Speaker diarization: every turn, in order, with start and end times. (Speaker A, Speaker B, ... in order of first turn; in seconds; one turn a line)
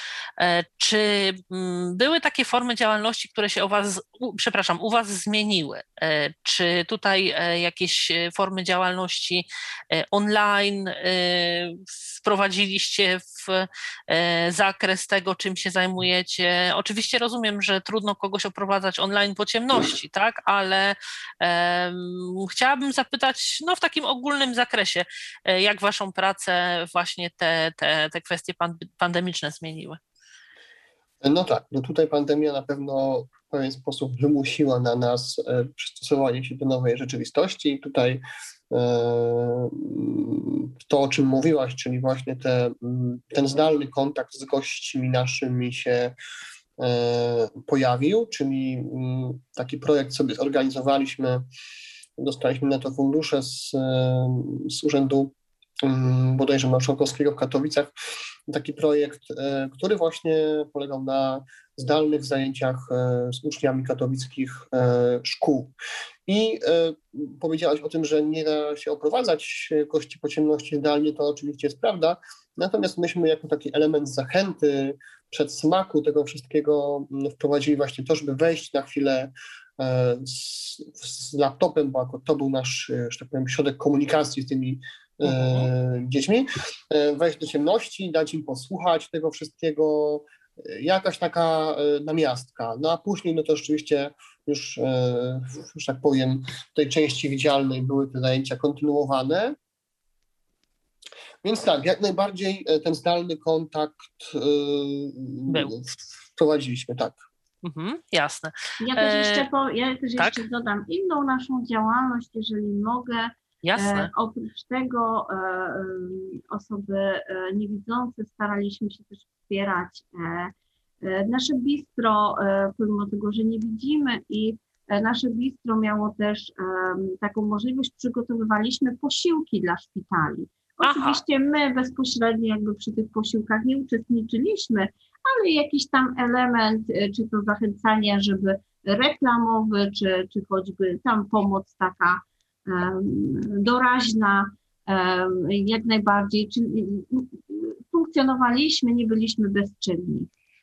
Speaker A: 0.4-30.0
Speaker B: 31.2-46.1
Speaker B: 46.8-51.5
Speaker B: 52.2-57.9
Speaker B: 58.5-65.7
Speaker B: 66.3-99.6
Speaker A: 85.2-85.7
Speaker B: 101.4-107.2
Speaker A: 105.5-105.8
Speaker A: 107.6-109.5
Speaker C: 108.8-150.3
Speaker A: 110.2-110.4
Speaker A: 113.6-114.1
Speaker A: 130.8-131.2